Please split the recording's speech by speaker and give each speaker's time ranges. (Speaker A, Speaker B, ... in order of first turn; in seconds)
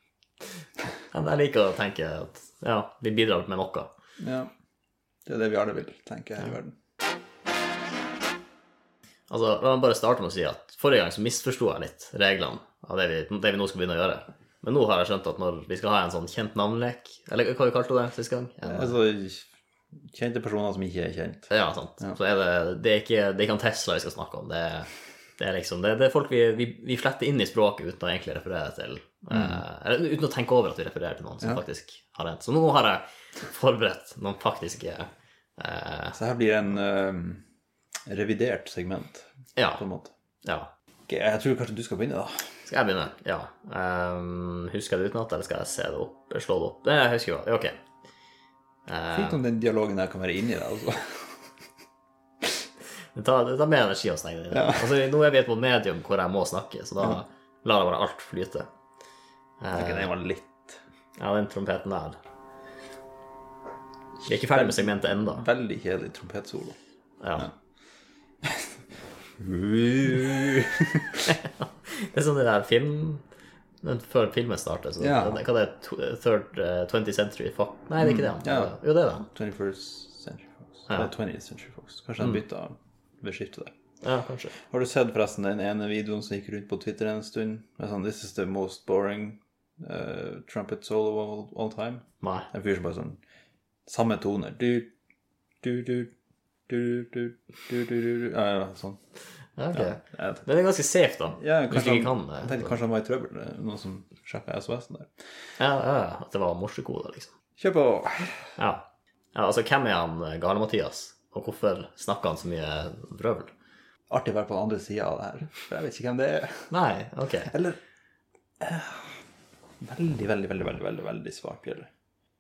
Speaker A: 1.1-3.9, 9.3-18.9, 21.5-36.2, 39.6-39.8, 40.4-40.7, 42.7-47.8, 48.9-49.4, 53.1-58.7, 59.6-60.1, 61.2-62.2, 64.2-65.4, 67.2-67.5, 71.3-73.2, 73.8-79.3, 84.0-84.6, 92.2-92.5, 99.6-102.8, 105.6-107.3, 108.6-113.5, 116.7-117.5
Speaker B: 4.2-4.5, 5.2-6.8, 18.6-19.5, 20.1-22.2, 29.3-29.6, 36.1-37.4, 38.1-40.1, 41.1-42.6, 49.1-51.4, 54.5-54.9, 59.7-60.8, 64.5-66.8, 69.4-71.3, 75.0-75.4, 78.0-78.8, 79.3-83.7, 84.6-93.2, 93.9-94.9, 95.6-96.1, 96.7-99.0, 99.7-100.5, 101.3-105.1, 107.6-108.5, 114.1-116.7, 117.5-117.8, 118.6-119.2, 119.8-121.9